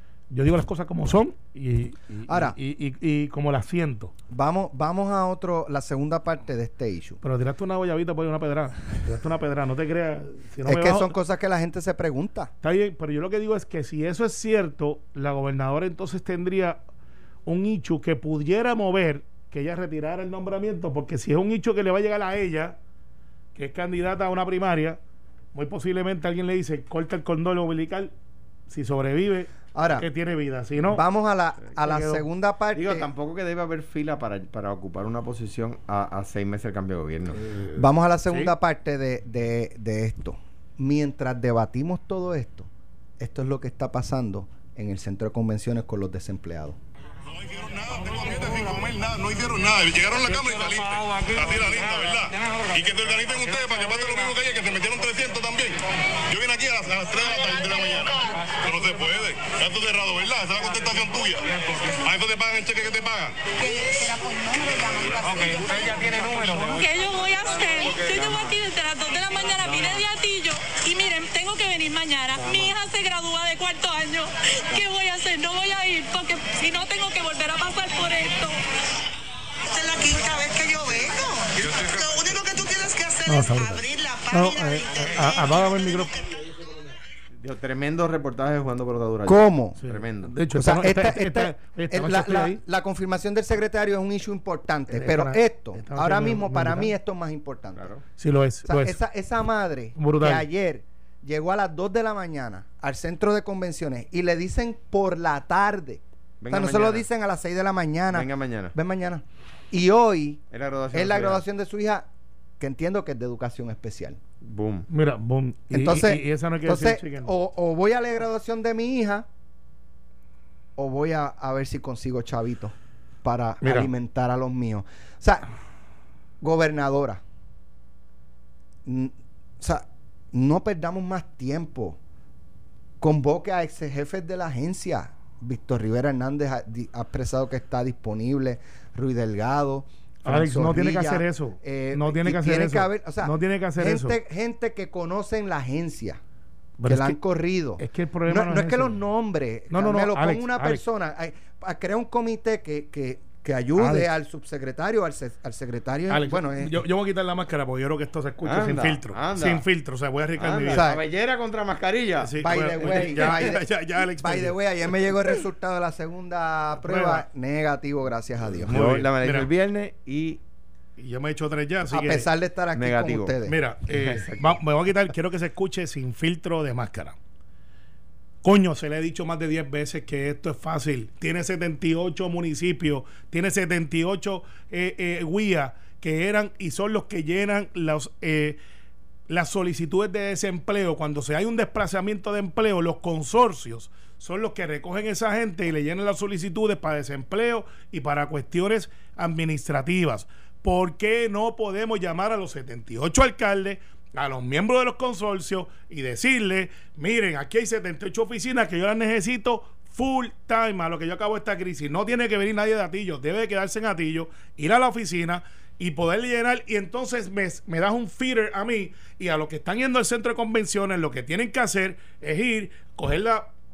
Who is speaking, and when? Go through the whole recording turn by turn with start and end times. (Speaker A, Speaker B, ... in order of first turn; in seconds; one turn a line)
Speaker A: 0.3-4.1
Speaker B: 2.3-2.5
Speaker B: 4.3-7.2
Speaker A: 7.2-11.1
Speaker B: 10.6-12.5
Speaker A: 12.6-16.8
Speaker A: 17.4-22.8
Speaker A: 23.5-25.0
Speaker A: 25.5-28.1
Speaker A: 28.7-31.0
Speaker B: 29.7-30.1
Speaker B: 30.8-33.1
Speaker A: 31.8-32.2
Speaker C: 32.7-37.5
Speaker B: 37.7-46.8
Speaker D: 47.3-63.5
Speaker E: 63.6-66.4
Speaker F: 66.6-78.6
Speaker E: 79.7-86.0
Speaker A: 83.3-86.2
Speaker C: 87.4-90.3
Speaker B: 89.2-89.8
Speaker A: 89.8-92.6
Speaker B: 90.5-97.9
Speaker A: 94.9-96.9
Speaker C: 97.8-98.0
Speaker A: 98.2-99.0
Speaker B: 98.6-112.1
Speaker A: 100.0-100.5
Speaker C: 106.4-107.0
Speaker C: 108.1-108.7
Speaker C: 110.5-111.4
Speaker B: 112.6-114.2
Speaker C: 114.4-114.9
Speaker A: 114.9-117.3
Speaker B: 115.7-119.3
Speaker B: 120.8-125.5
Speaker A: 123.6-123.9
Speaker B: 126.4-127.2
Speaker B: 128.8-132.0
Speaker B: 133.0-146.2
Speaker A: 140.2-144.2
Speaker A: 146.8-147.2
Speaker B: 146.8-156.8
Speaker A: 147.8-148.9
Speaker A: 149.7-150.8
Speaker A: 153.8-154.1
Speaker A: 156.1-160.8
Speaker C: 158.4-159.6
Speaker C: 160.4-163.0
Speaker B: 160.7-161.0
Speaker A: 162.2-164.6
Speaker B: 162.4-168.8
Speaker A: 166.7-167.2
Speaker A: 168.7-169.5
Speaker C: 168.7-170.4
Speaker A: 171.0-172.3
Speaker B: 171.9-173.6
Speaker C: 172.7-173.3
Speaker A: 173.4-177.2
Speaker C: 173.9-174.6
Speaker A: 178.4-188.6
Speaker A: 189.3-223.5